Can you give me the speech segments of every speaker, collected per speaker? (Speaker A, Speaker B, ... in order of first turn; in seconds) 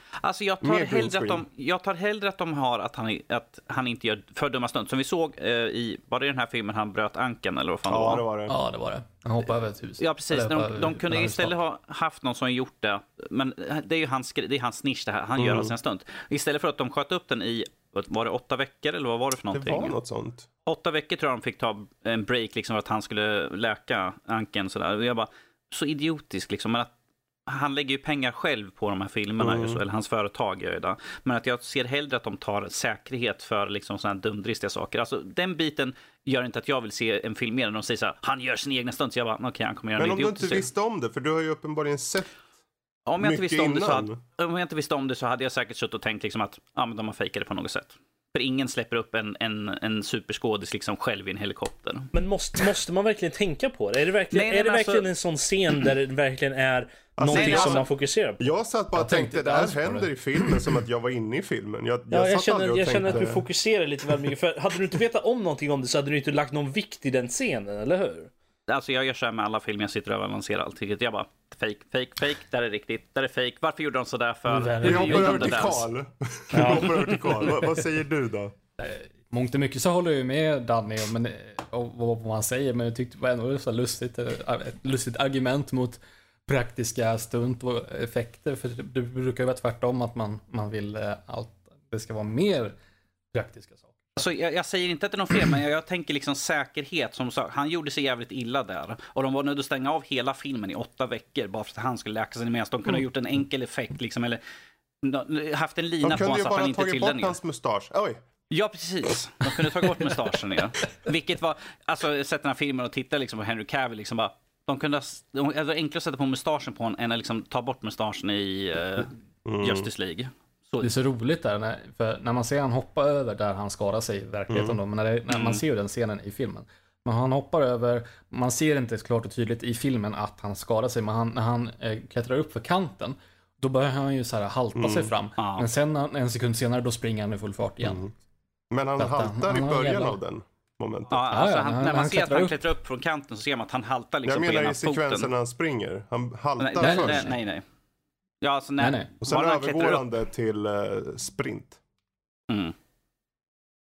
Speaker A: 0.2-8.2, 10.0-19.9, 20.6-26.9, 27.5-40.6, 43.0-52.1, 54.3-55.1, 57.3-57.8, 68.7-75.8, 94.2-104.4, 105.0-107.3, 108.5-120.9, 125.3-125.6, 135.4-135.7, 141.1-145.3, 146.6-147.6, 148.4-150.0, 152.5-152.7
Speaker B: 0.6-1.4, 7.9-8.5, 15.4-15.7, 19.5-20.5, 29.4-29.8, 40.0-42.4, 43.2-44.2, 57.2-57.9, 58.4-63.4, 74.8-78.5, 106.0-108.2, 119.4-119.9, 124.5-124.8, 134.8-135.1, 137.8-138.1, 138.7-141.2, 144.2-147.3, 149.2-151.8
Speaker C: 8.5-11.5, 59.0-60.0, 74.5-75.7, 76.5-76.9, 78.8-92.8, 93.3-94.2, 120.8-138.1, 139.0-140.2, 141.3-142.6, 146.8-147.3, 148.8-149.1
Speaker D: 52.1-58.4, 62.1-68.3